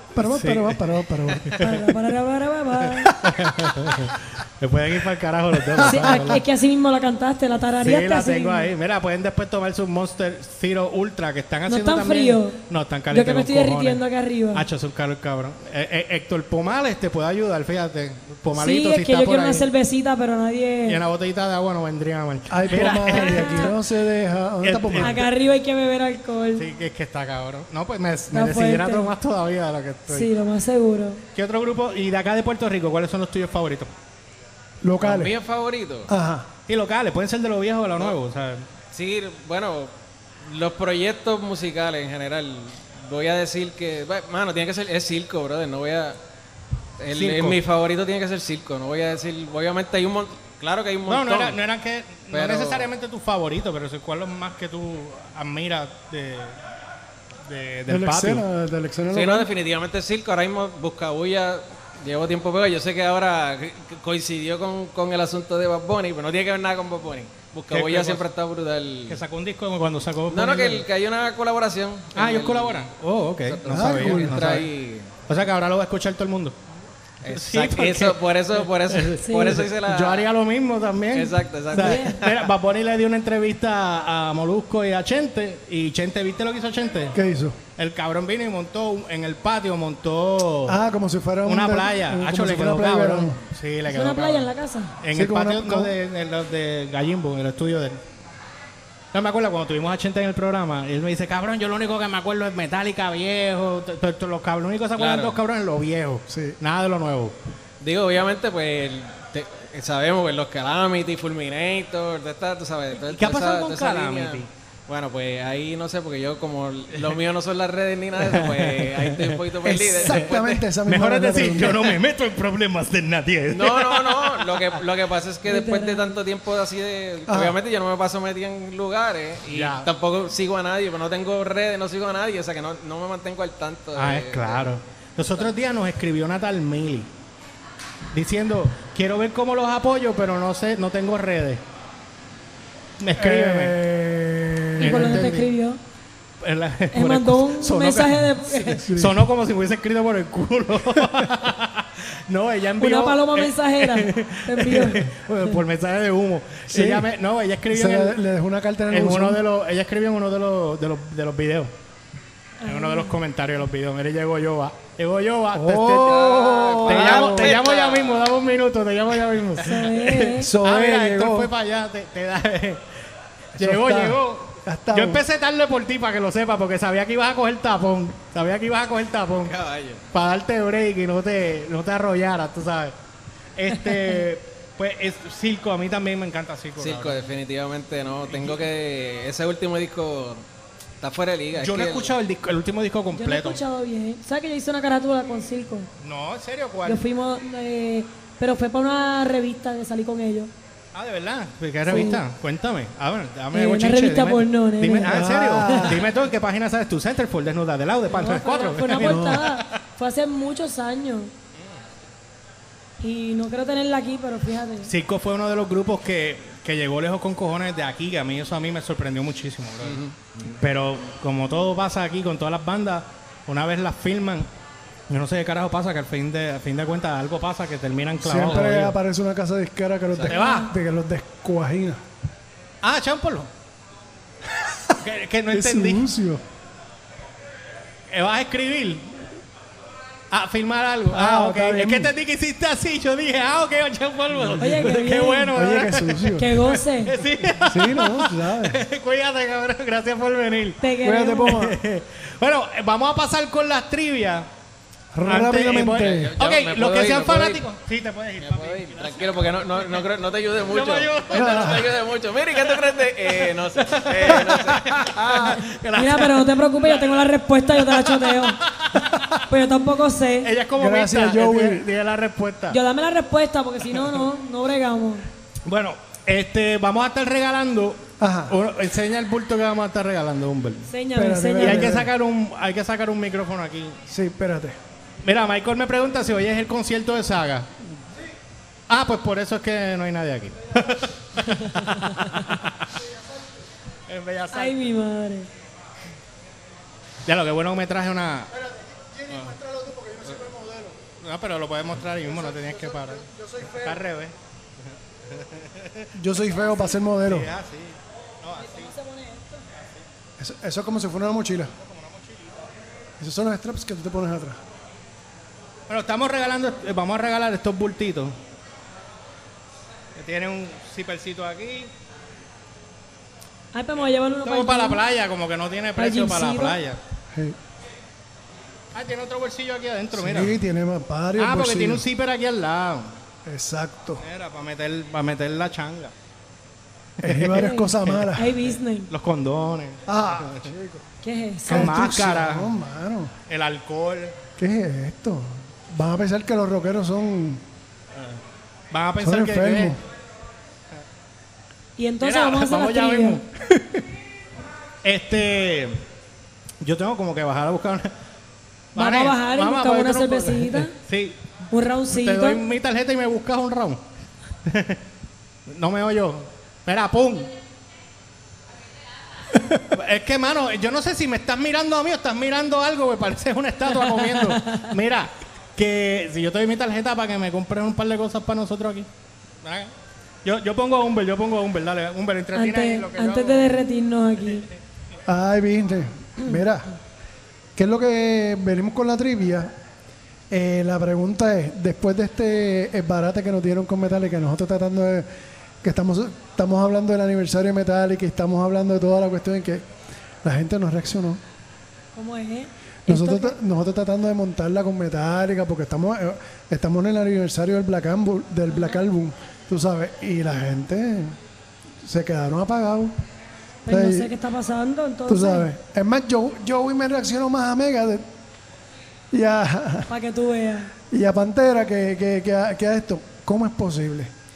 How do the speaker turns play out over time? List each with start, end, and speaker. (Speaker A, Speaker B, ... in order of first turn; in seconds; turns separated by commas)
Speaker A: 0.1-1.6, Speaker B: 0.2-1.9, Speaker C: 1.5-3.3, Speaker B: 3.0-6.4, Speaker A: 5.8-6.3, Speaker C: 5.8-8.7, Speaker B: 7.8-14.0, Speaker C: 11.7-14.7, Speaker B: 14.5-19.7, Speaker C: 18.6-21.0, Speaker B: 20.9-23.7, Speaker A: 22.5-25.3, Speaker C: 22.7-23.8, Speaker B: 24.6-25.2, Speaker C: 25.0-26.7, Speaker B: 26.6-30.3, Speaker C: 28.3-29.1, Speaker C: 30.1-31.2, Speaker B: 31.4-33.9, Speaker A: 34.8-35.4, Speaker D: 35.0-36.1, Speaker A: 36.1-36.5, Speaker B: 36.7-38.7, Speaker D: 38.9-39.9, Speaker D: 40.4-46.2, Speaker D: 47.0-51.6, Speaker B: 47.1-47.6, Speaker B: 51.1-56.6, Speaker D: 52.3-52.9, Speaker B: 57.5-58.4, Speaker A: 57.9-59.5, Speaker D: 59.1-69.2, Speaker B: 67.7-68.3, Speaker B: 69.1-70.9, Speaker D: 70.3-72.9, Speaker B: 72.2-74.7, Speaker D: 73.5-75.1, Speaker A: 73.7-74.6, Speaker B: 75.3-76.6, Speaker D: 77.2-80.3, Speaker B: 77.3-87.2, Speaker C: 79.2-79.7, Speaker D: 81.1-82.5, Speaker C: 81.7-82.2, Speaker A: 87.1-87.6, Speaker B: 87.8-90.8, Speaker A: 90.7-93.4, Speaker B: 91.4-94.5, Speaker C: 93.9-95.0, Speaker B: 95.0-98.0, Speaker A: 95.1-95.9, Speaker B: 99.1-107.3, Speaker D: 105.0-105.4, Speaker A: 106.3-106.6, Speaker D: 107.8-120.6, Speaker B: 113.0-114.5, Speaker B: 118.2-119.4, Speaker A: 119.6-122.0, Speaker B: 120.9-124.8, Speaker D: 123.5-134.7, Speaker C: 125.5-126.2, Speaker A: 127.3-127.6, Speaker B: 129.5-129.9, Speaker B: 133.9-137.1, Speaker B: 138.1-141.6, Speaker B: 143.0-143.8, Speaker A: 143.2-145.3, Speaker B: 144.8-145.5, Speaker C: 144.8-145.8, Speaker B: 146.4-158.2, Speaker C: 146.9-148.9, Speaker A: 148.8-149.2, Speaker C: 152.8-155.1, Speaker A: 156.7-157.1, Speaker A: 157.7-159.4, Speaker B: 158.9-161.7, Speaker C: 162.6-163.2, Speaker B: 162.6-166.2, Speaker A: 165.5-167.6, Speaker D: 166.0-168.4, Speaker B: 166.8-173.0, Speaker C: 169.6-170.5, Speaker A: 170.4-171.5, Speaker B: 173.6-179.6, Speaker A: 173.6-175.2, Speaker D: 179.4-180.0, Speaker B: 180.1-182.9, Speaker B: 183.6-187.2, Speaker D: 186.8-190.4, Speaker B: 188.3-188.7, Speaker D: 191.0-192.1, Speaker B: 191.6-193.6, Speaker C: 193.1-195.9, Speaker B: 196.0-197.0, Speaker C: 196.8-200.5, Speaker B: 200.9-209.8, Speaker C: 201.9-202.2, Speaker C: 203.5-206.0, Speaker A: 205.1-206.0, Speaker C: 208.1-211.3, Speaker A: 209.0-209.5, Speaker C: 213.0-214.9, Speaker B: 214.8-224.5, Speaker D: 219.8-220.5, Speaker B: 225.1-229.0, Speaker A: 228.2-232.0, Speaker B: 230.2-230.7, Speaker C: 230.3-230.7, Speaker B: 232.8-233.5, Speaker A: 234.6-234.9, Speaker B: 235.0-236.1, Speaker A: 235.5-236.4, Speaker B: 238.1-239.3, Speaker B: 240.3-250.8, Speaker A: 241.1-242.1, Speaker A: 244.4-244.9, Speaker C: 244.6-245.6, Speaker A: 245.5-246.5, Speaker C: 246.3-247.2, Speaker A: 247.6-248.8, Speaker C: 250.8-251.6, Speaker A: 251.0-251.8, Speaker B: 251.4-254.5, Speaker A: 255.1-256.3, Speaker B: 255.2-262.0, Speaker D: 255.8-257.6, Speaker D: 258.4-265.6, Speaker A: 261.3-261.9, Speaker B: 262.6-267.2, Speaker C: 265.9-268.6, Speaker B: 267.7-269.4, Speaker C: 269.5-270.5, Speaker B: 270.4-272.8, Speaker A: 270.8-271.9, Speaker C: 272.7-275.3, Speaker B: 275.7-280.9, Speaker A: 278.2-278.6, Speaker C: 280.9-281.9, Speaker A: 281.2-282.1, Speaker B: 281.6-284.0, Speaker A: 284.1-284.8, Speaker B: 285.2-287.7, Speaker B: 288.9-292.9, Speaker B: 294.1-294.9, Speaker C: 294.5-295.5, Speaker B: 297.3-298.5, Speaker A: 298.5-301.0, Speaker B: 299.3-299.6, Speaker B: 301.2-304.4, Speaker A: 302.2-304.0, Speaker B: 305.2-306.1, Speaker A: 306.1-307.5, Speaker B: 307.2-308.9, Speaker C: 308.6-309.6, Speaker B: 309.8-310.0, Speaker A: 310.4-311.7, Speaker B: 311.8-312.6, Speaker A: 313.2-314.6, Speaker B: 315.9-318.4, Speaker B: 320.2-321.9, Speaker C: 323.7-325.0, Speaker B: 324.4-327.0, Speaker C: 326.0-326.8, Speaker B: 328.9-330.6, Speaker A: 330.1-332.1, Speaker B: 331.4-333.2, Speaker A: 333.5-334.2, Speaker B: 334.2-336.1, Speaker B: 337.2-338.3, Speaker A: 337.2-338.6, Speaker C: 337.6-339.1, Speaker B: 339.1-340.7, Speaker A: 340.1-341.1, Speaker C: 341.2-342.0, Speaker B: 341.7-342.7, Speaker A: 341.7-343.3, Speaker B: 343.5-344.4, Speaker A: 344.6-347.6, Speaker B: 348.9-350.0, Speaker A: 349.2-350.0, Speaker C: 352.0-353.4, Speaker B: 352.2-353.4, Speaker A: 353.7-354.0, Speaker B: 355.0-356.1, Speaker B: 356.8-358.1, Speaker B: 358.9-361.5, Speaker C: 359.0-360.9, Speaker C: 361.7-362.6, Speaker B: 362.1-364.0, Speaker B: 364.7-365.0, Speaker B: 365.7-367.5, Speaker B: 369.8-379.1, Speaker C: 373.9-374.9, Speaker B: 379.6-379.9, Speaker B: 380.4-383.7, Speaker C: 382.5-384.7, Speaker A: 385.3-386.9, Speaker A: 387.8-389.7, Speaker A: 390.5-395.3, Speaker A: 395.8-399.9, Speaker A: 400.4-401.4, Speaker C: 402.1-403.6, Speaker A: 403.1-411.4, Speaker C: 408.7-409.0, Speaker A: 412.0-413.1, Speaker C: 413.9-415.7, Speaker A: 413.9-414.3, Speaker A: 415.3-418.2, Speaker A: 419.3-420.1, Speaker C: 420.1-420.9, Speaker A: 421.1-424.3